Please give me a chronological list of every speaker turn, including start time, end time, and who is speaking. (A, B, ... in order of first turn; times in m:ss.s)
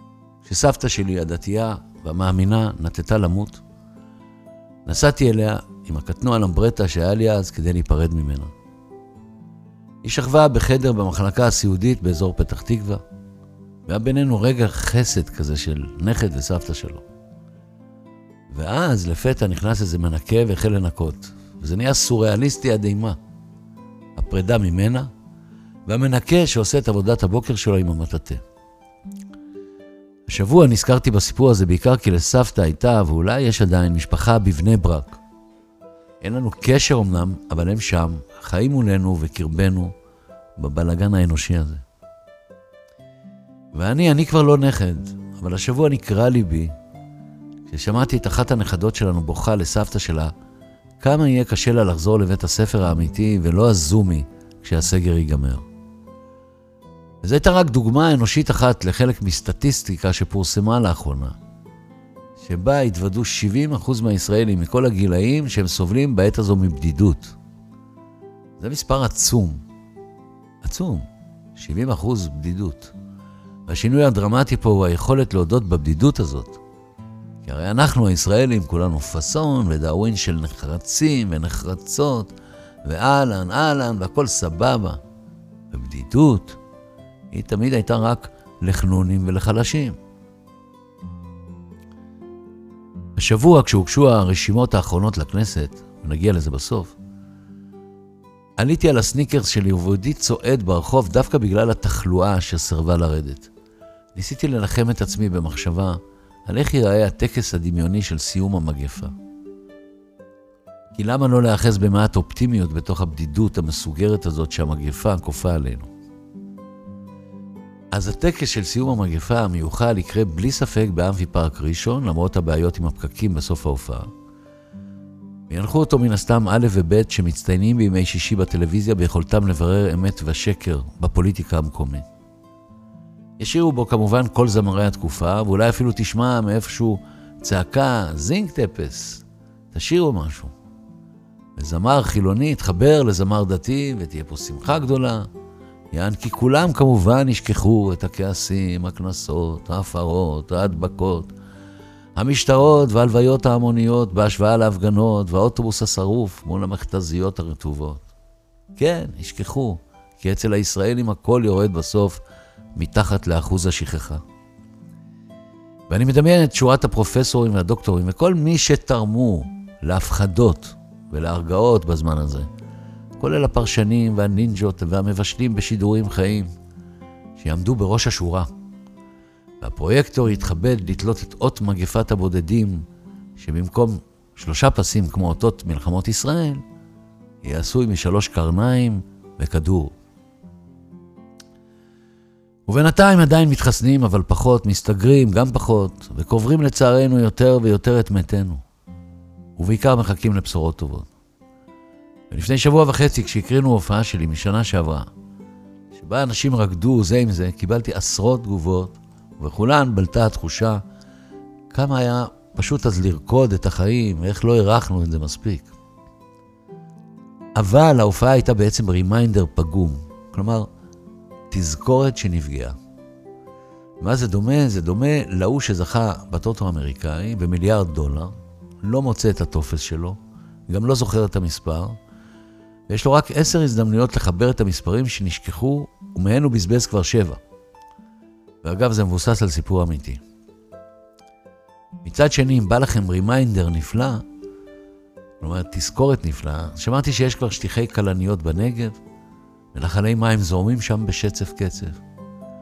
0:00.4-0:03.6 A
0:04.8-0:08.5 A
0:10.0-0:13.0 A
0:13.9-0:17.0 A
0:18.5-0:23.2 A
0:24.2-0:25.1 A
0:25.9-0:28.4 A
0:30.3-0:35.2 A
0:36.2-0:39.9 A
0:40.6-0:41.8 A
0:43.7-0:46.7 A
0:47.7-0:50.3 A
0:51.0-0:55.6 A
0:57.2-1:01.3 A
1:02.4-1:07.3 A
1:08.6-1:09.6 A
1:10.6-1:12.9 A
1:13.7-1:16.6 A
1:17.4-1:22.3 A
1:22.8-1:25.0 A
1:25.7-1:26.6 A
1:27.3-1:30.0 A
1:33.2-1:36.9 A
1:38.6-1:43.5 A
1:44.1-1:49.1 A
1:50.9-1:55.9 A
1:57.9-2:04.1 A
2:05.5-2:12.0 A
2:13.4-2:20.5 A
2:21.6-2:25.3 A
2:25.9-2:31.3 A
2:32.2-2:38.1 A
2:38.8-2:42.2 A
2:42.7-2:44.2 A
2:45.9-2:52.5 A
2:53.2-2:56.5 A
2:57.4-2:58.5 A
2:59.6-3:02.8 A
3:03.4-3:06.6 A
3:07.4-3:09.9 A
3:12.7-3:18.6 A
3:19.6-3:21.1 A
3:22.3-3:25.1 A
3:25.9-3:30.8 A
3:31.7-3:35.7 A
3:37.6-3:40.7 A
3:41.5-3:42.8 A
3:44.0-3:50.2 A
3:50.7-3:52.0 A
3:52.9-3:57.4 A
3:58.6-4:00.2 A
4:02.0-4:04.2 A
4:05.4-4:09.0 A
4:09.7-4:12.0 A